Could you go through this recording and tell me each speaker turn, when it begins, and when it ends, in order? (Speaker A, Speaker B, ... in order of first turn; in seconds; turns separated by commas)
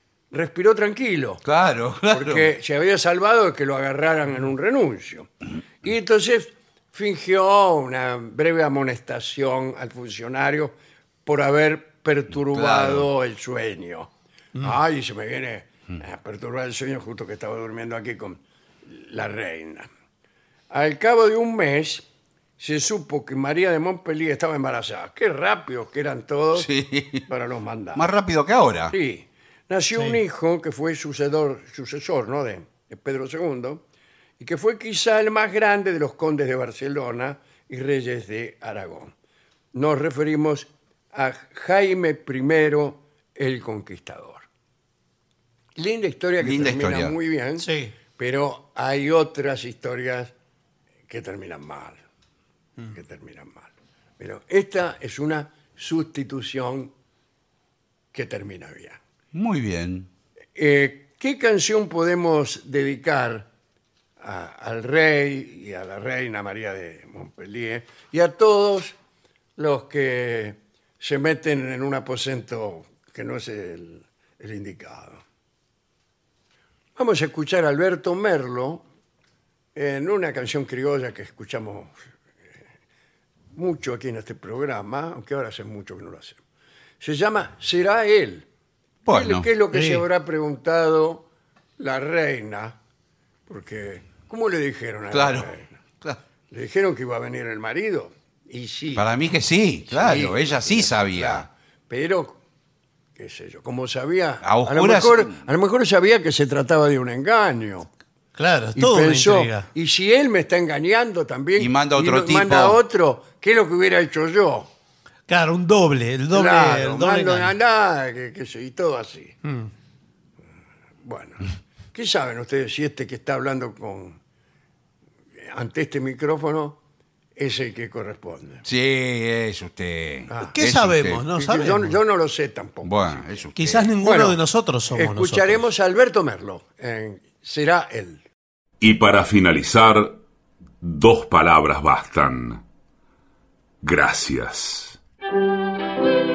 Speaker A: 0.3-1.4, Speaker B: 1.4-2.5, Speaker A: 2.1-5.3, Speaker A: 5.8-10.7, Speaker A: 11.2-14.1, Speaker B: 12.3-13.1, Speaker A: 14.6-19.9, Speaker A: 20.7-22.1, Speaker A: 22.6-26.7, Speaker B: 26.5-27.2, Speaker A: 27.2-28.0, Speaker B: 27.9-28.9, Speaker A: 28.9-33.8, Speaker A: 34.4-39.1, Speaker A: 39.7-44.4, Speaker A: 45.8-50.3, Speaker B: 46.4-47.1, Speaker C: 47.6-47.9, Speaker A: 51.1-52.0, Speaker A: 52.9-56.9, Speaker A: 58.1-59.0, Speaker B: 59.3-60.1, Speaker A: 60.5-63.5, Speaker A: 64.2-68.9, Speaker A: 69.6-75.2, Speaker A: 77.0-78.8, Speaker A: 79.7-81.9, Speaker A: 83.5-86.4, Speaker A: 87.0-88.5, Speaker B: 89.0-89.5, Speaker A: 89.0-91.2, Speaker C: 89.7-90.0, Speaker A: 91.8-92.8, Speaker A: 93.5-95.7, Speaker B: 95.1-95.5, Speaker A: 96.5-99.1, Speaker B: 98.9-101.5, Speaker A: 99.9-102.4, Speaker A: 103.2-107.9, Speaker B: 104.4-105.4, Speaker C: 108.3-109.7, Speaker A: 108.8-114.7, Speaker B: 111.6-112.8, Speaker C: 115.3-117.5, Speaker A: 116.3-119.3, Speaker C: 119.4-119.7, Speaker A: 121.0-124.2, Speaker A: 125.4-126.8, Speaker A: 127.3-128.6, Speaker B: 128.7-131.2, Speaker A: 130.3-130.5, Speaker C: 130.4-132.0, Speaker A: 131.3-133.4, Speaker B: 132.8-133.9, Speaker C: 133.6-135.7, Speaker A: 134.0-134.4, Speaker A: 134.9-138.2, Speaker D: 138.8-140.2, Speaker D: 140.8-142.6, Speaker D: 143.8-145.0